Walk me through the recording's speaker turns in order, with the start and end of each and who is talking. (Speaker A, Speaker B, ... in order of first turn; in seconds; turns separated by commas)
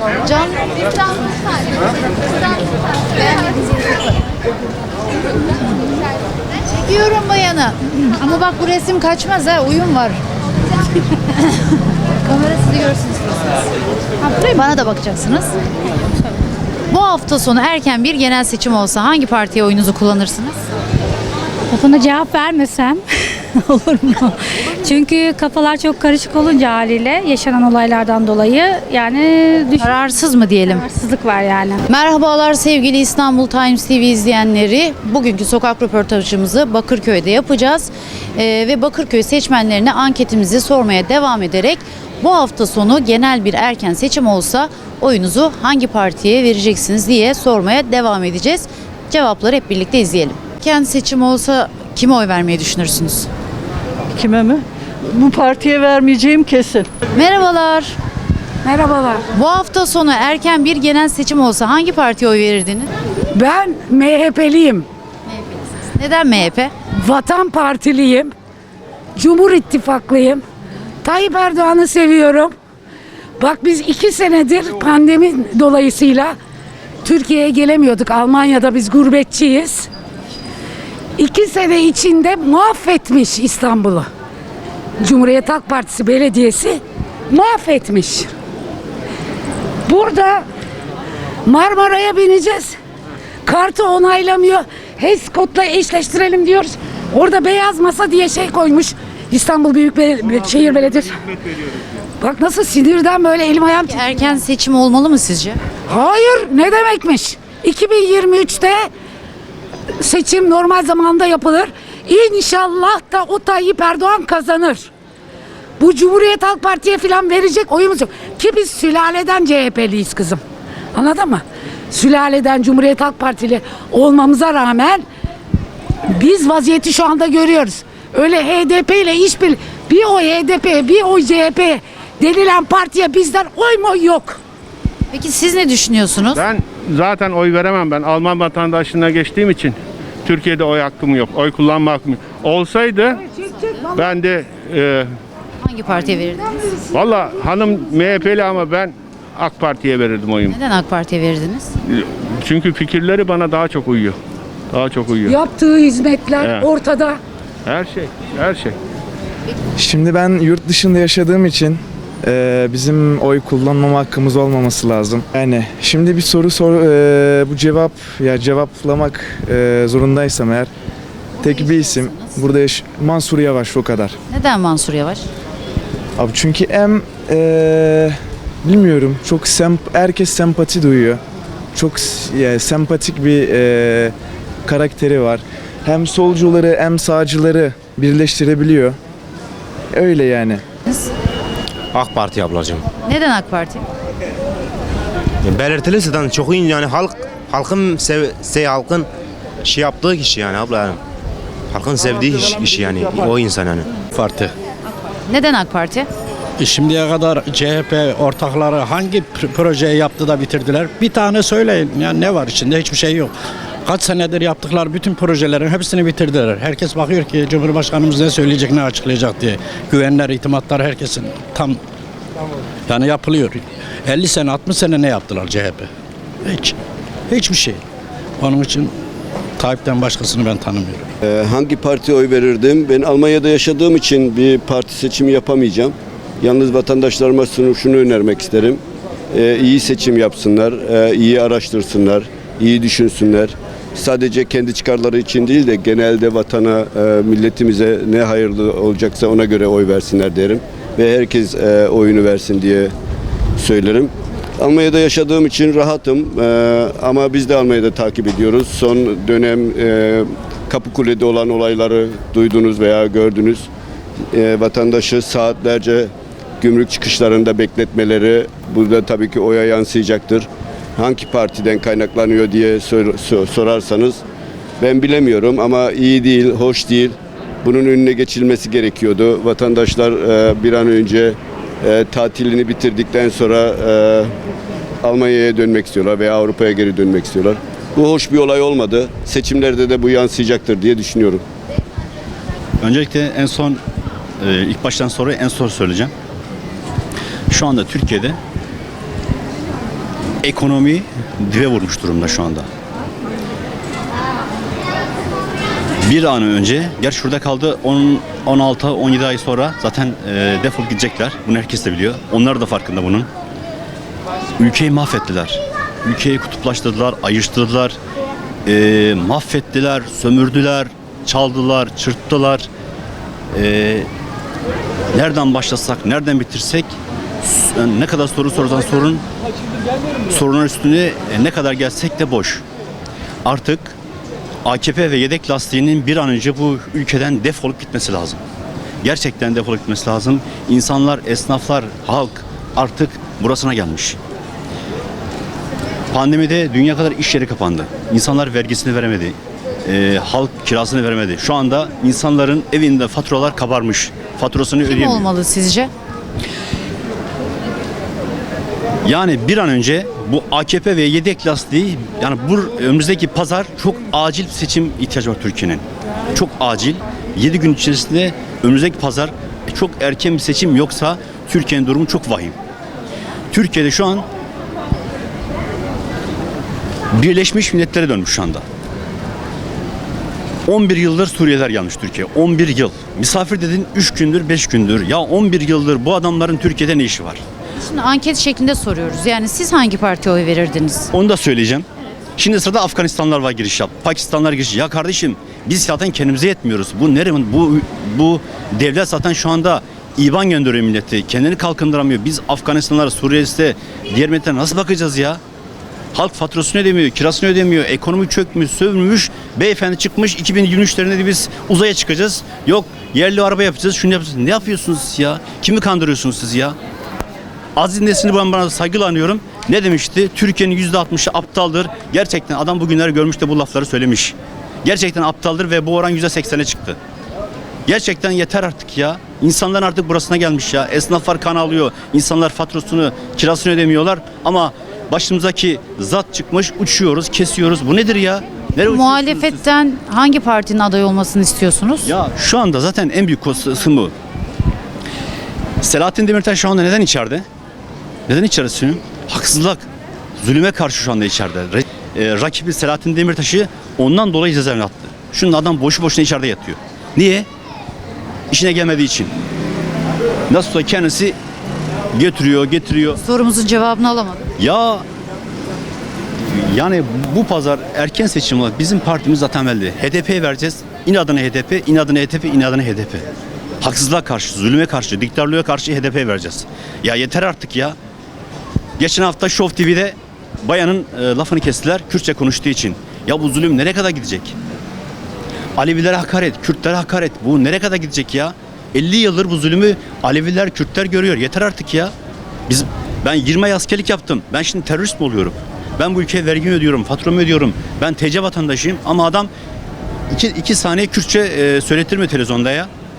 Speaker A: 0.2-1.2, Speaker A: 3.2-4.2, Speaker A: 6.7-10.2, Speaker A: 12.2-13.6, Speaker A: 14.4-15.5, Speaker A: 16.9-20.6, Speaker B: 21.7-23.0, Speaker B: 23.6-29.9, Speaker A: 29.8-30.9, Speaker B: 30.7-31.8, Speaker A: 31.9-53.3, Speaker C: 54.1-56.9, Speaker A: 57.1-57.9, Speaker D: 58.6-59.2, Speaker A: 59.3-62.9, Speaker D: 63.3-64.8, Speaker A: 65.3-66.7, Speaker D: 66.9-68.3, Speaker D: 69.2-70.4, Speaker D: 71.0-72.5, Speaker D: 73.4-76.3, Speaker D: 77.0-79.9, Speaker D: 81.2-84.1, Speaker D: 85.0-88.3, Speaker D: 89.8-90.4, Speaker D: 91.4-92.8, Speaker D: 93.4-101.2, Speaker D: 102.2-104.4, Speaker A: 103.8-105.6, Speaker D: 105.9-108.9, Speaker D: 110.0-114.9, Speaker D: 115.8-120.4, Speaker D: 120.9-125.0, Speaker D: 126.1-134.4, Speaker A: 135.1-136.4, Speaker E: 136.3-143.2, Speaker D: 143.6-143.9, Speaker E: 143.9-145.1, Speaker A: 145.6-146.5, Speaker E: 146.9-150.6, Speaker A: 150.5-151.7, Speaker E: 151.9-154.2, Speaker E: 154.7-155.3, Speaker D: 155.2-157.2, Speaker E: 156.4-156.7, Speaker E: 157.7-158.7, Speaker F: 159.8-170.7, Speaker A: 171.4-172.4, Speaker F: 171.4-174.2, Speaker A: 174.3-175.2, Speaker F: 176.2-181.2, Speaker F: 181.7-184.1, Speaker F: 184.6-189.0, Speaker F: 189.9-190.6, Speaker G: 191.9-192.8, Speaker A: 193.0-193.8, Speaker G: 195.4-199.1, Speaker G: 199.6-201.0, Speaker G: 201.7-203.9, Speaker H: 204.1-204.5, Speaker A: 205.3-206.1, Speaker H: 206.6-213.3, Speaker H: 213.8-221.8, Speaker H: 222.9-225.9, Speaker H: 226.4-226.7, Speaker H: 227.3-227.8, Speaker H: 228.4-228.9, Speaker H: 229.6-231.1, Speaker I: 231.2-238.8, Speaker I: 239.3-252.9, Speaker I: 253.6-263.7, Speaker I: 264.3-274.2, Speaker I: 274.8-284.3, Speaker I: 285.0-291.4, Speaker J: 292.8-293.8, Speaker J: 294.4-296.1, Speaker J: 297.5-298.4, Speaker J: 300.4-302.6, Speaker J: 306.0-313.3, Speaker J: 314.6-318.0, Speaker J: 318.6-322.7, Speaker J: 323.5-324.1, Speaker J: 325.1-329.2, Speaker J: 330.3-332.6, Speaker J: 333.4-333.9, Speaker J: 334.6-338.4, Speaker J: 339.0-344.2, Speaker J: 346.1-355.3, Speaker A: 354.8-355.9, Speaker J: 359.0-372.6, Speaker J: 373.5-374.2, Speaker J: 377.1-378.6, Speaker J: 380.6-387.4, Speaker A: 387.8-391.1, Speaker J: 391.1-391.9, Speaker J: 392.4-405.4, Speaker J: 406.1-416.8, Speaker J: 417.8-427.0, Speaker J: 427.9-439.6, Speaker A: 438.8-442.1, Speaker J: 442.0-444.1, Speaker J: 445.8-447.4, Speaker J: 448.3-449.8, Speaker J: 450.4-457.5, Speaker J: 458.5-459.3, Speaker J: 460.5-461.4, Speaker J: 462.1-463.2, Speaker A: 463.2-464.4, Speaker J: 464.6-465.0, Speaker J: 466.5-473.2, Speaker J: 473.8-477.9, Speaker J: 479.0-484.6, Speaker J: 485.8-492.1, Speaker J: 492.7-499.5, Speaker J: 500.3-502.9